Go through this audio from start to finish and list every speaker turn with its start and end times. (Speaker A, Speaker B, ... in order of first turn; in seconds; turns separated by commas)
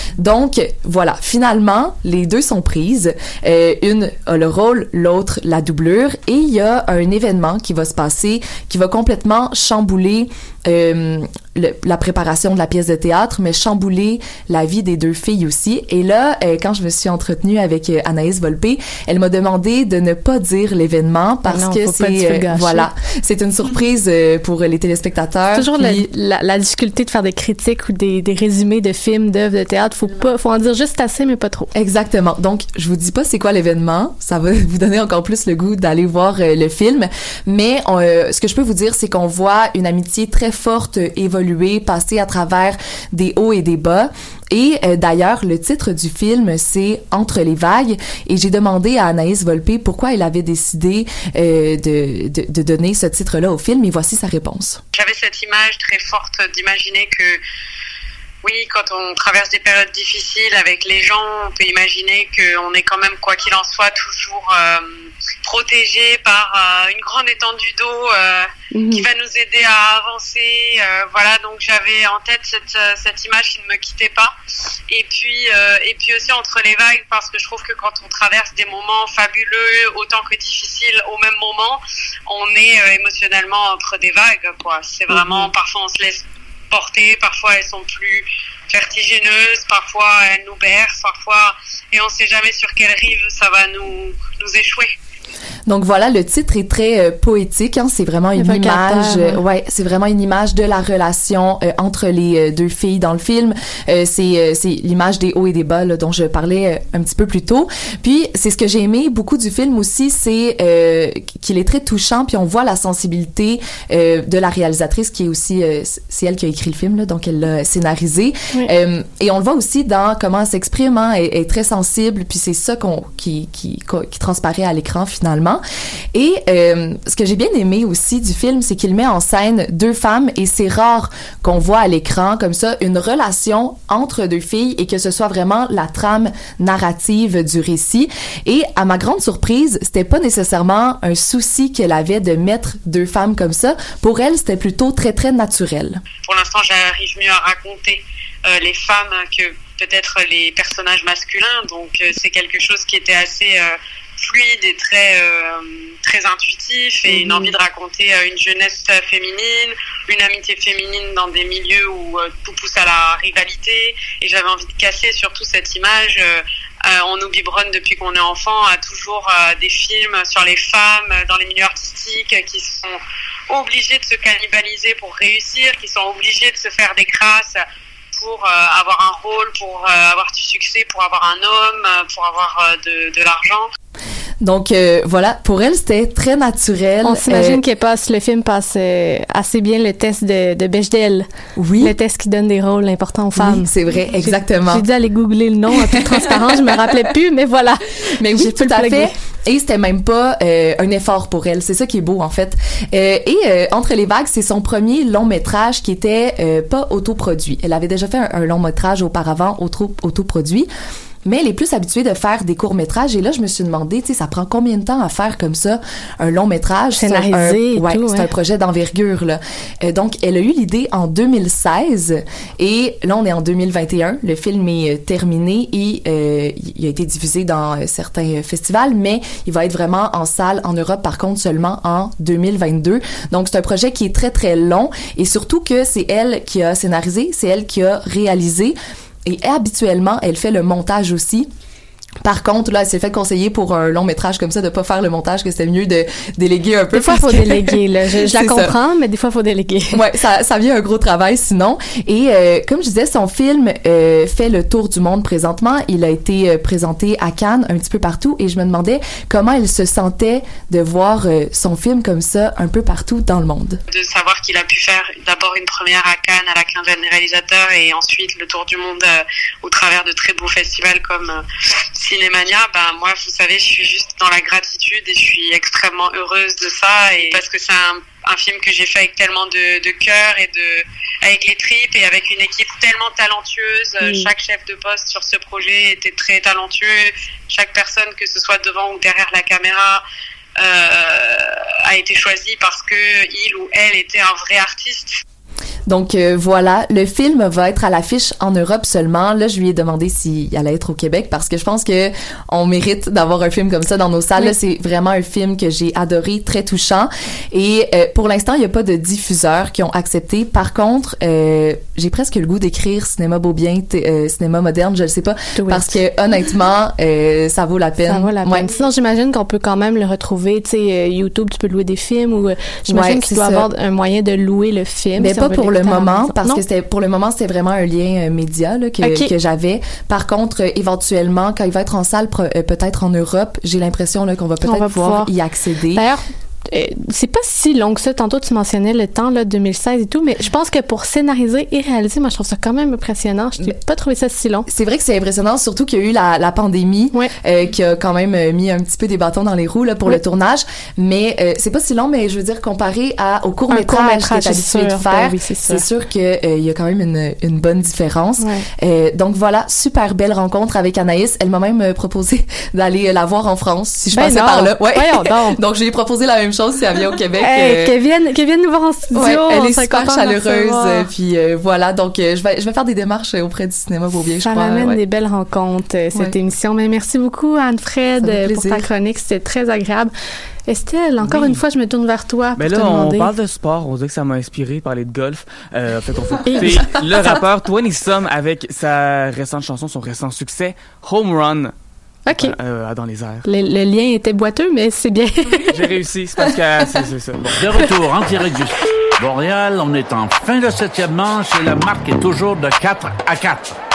Speaker A: 0.2-26.1, Speaker B: 21.4-22.9, Speaker B: 25.5-31.7, Speaker A: 31.7-54.8, Speaker C: 54.9-57.4, Speaker C: 58.4-64.9, Speaker C: 65.4-74.3, Speaker B: 68.7-69.1, Speaker C: 74.9-95.0, Speaker A: 95.7-125.6, Speaker B: 98.4-99.4, Speaker A: 126.1-146.0, Speaker C: 146.2-177.6, Speaker B: 157.1-157.5, Speaker C: 178.2-183.7, Speaker A: 184.4-187.6, Speaker B: 187.0-191.3, Speaker A: 191.6-191.9, Speaker B: 191.8-193.7, Speaker A: 193.4-194.9, Speaker B: 194.2-199.1, Speaker A: 195.9-196.8, Speaker A: 198.2-210.7, Speaker A: 211.2-241.5, Speaker B: 216.9-218.3, Speaker A: 242.2-248.8, Speaker B: 246.9-250.0, Speaker A: 249.9-263.8, Speaker C: 263.9-271.4, Speaker C: 271.9-290.0, Speaker C: 290.6-295.2, Speaker A: 295.9-318.7, Speaker B: 315.6-315.9, Speaker B: 318.1-326.6, Speaker A: 322.9-323.7, Speaker A: 325.2-336.1, Speaker B: 329.0-329.3, Speaker B: 334.6-335.3, Speaker B: 335.9-344.7, Speaker A: 344.7-367.9, Speaker B: 353.7-355.8, Speaker B: 358.4-358.6, Speaker B: 364.1-365.6, Speaker B: 367.4-371.1, Speaker A: 369.1-375.0, Speaker B: 374.4-380.1, Speaker A: 378.2-378.9, Speaker B: 380.7-383.3, Speaker D: 381.2-381.6, Speaker D: 382.6-391.7, Speaker B: 386.4-386.9, Speaker B: 392.3-392.6, Speaker D: 392.4-393.4, Speaker B: 393.4-395.8, Speaker D: 395.7-397.9, Speaker E: 397.6-403.8